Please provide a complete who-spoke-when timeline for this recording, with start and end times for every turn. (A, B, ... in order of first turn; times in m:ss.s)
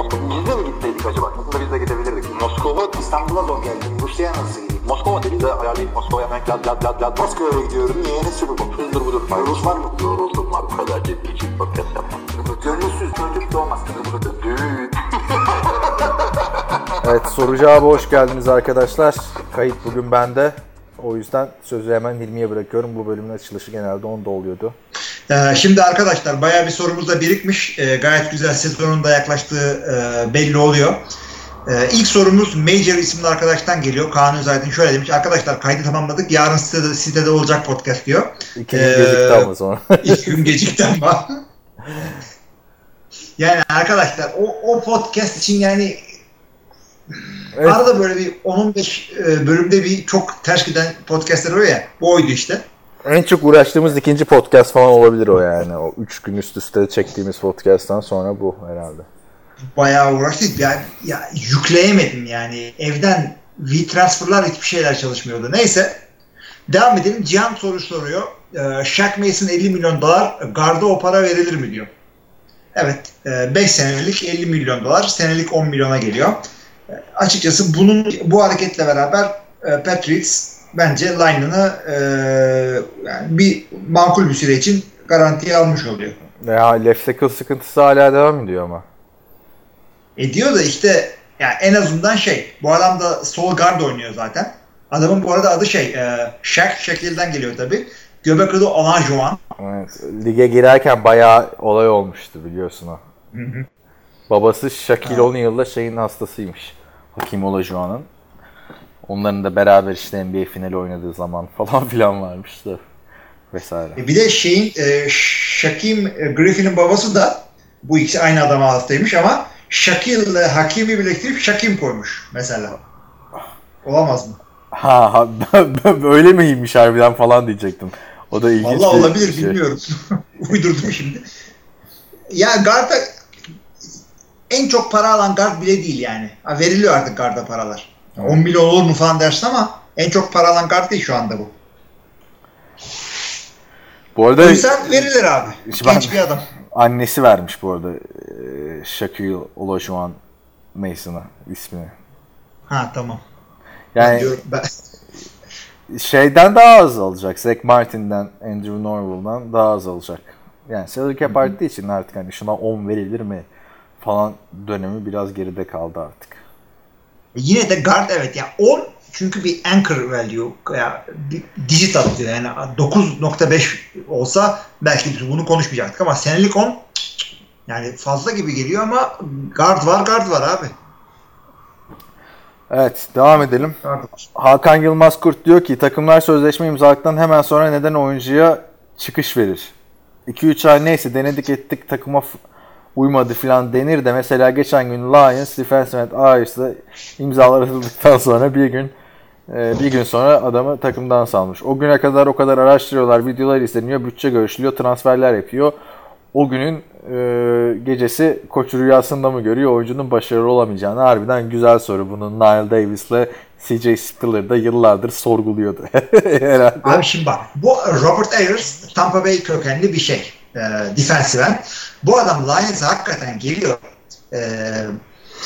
0:00.2-0:02.7 A
0:02.7-0:04.8 B
0:04.8-0:06.8 A
0:06.5-0:07.0 C
0:07.4-0:08.7 A
0:08.3-0:09.6 C
0:09.8-0:10.3 A
0:10.4-0:11.4 C
0:12.6-0:13.8 B
0:17.0-0:24.7 C
0:25.3-0:31.0 B
0:31.7-0:39.5 B
0:38.6-0:40.4 C
0:40.0-0:41.4 B
0:43.4-0:46.0 B
0:47.5-0:47.8 C
0:47.6-0:52.6 B
0:53.0-0:59.1 C
0:59.7-1:06.0 B
1:06.7-1:11.9 B
1:12.7-1:16.4 B
1:16.9-1:26.2 B
1:26.4-1:28.8 C
1:30.2-1:39.4 B
1:39.6-1:43.0 C
1:43.3-1:43.7 B
1:44.3-1:48.1 C
1:45.0-1:45.3 B
1:49.0-1:52.8 C
1:53.5-1:54.0 C
1:54.0-2:02.8 B
2:03.8-2:04.4 B
2:04.7-2:09.6 C
2:08.6-2:11.2 B
2:12.3-2:13.0 B
2:14.5-2:21.5 B
2:24.1-2:25.1 C
2:24.4-2:26.5 B
2:25.6-2:26.2 C
2:26.7-2:30.2 C
2:30.7-2:31.9 C
2:32.7-2:33.2 B
2:33.9-2:34.3 C
2:34.0-2:34.7 B
2:35.9-2:43.4 C
2:41.3-2:41.5 B
2:44.0-2:46.4 C
2:47.3-2:56.8 B
2:57.7-3:00.7 B
3:02.7-3:03.8 C
3:03.8-3:04.1 B
3:04.3-3:09.7 C
3:10.3-3:12.4 C
3:13.0-3:18.9 C
3:19.5-3:25.7 C
3:26.3-3:37.0 C
3:36.8-3:45.0 B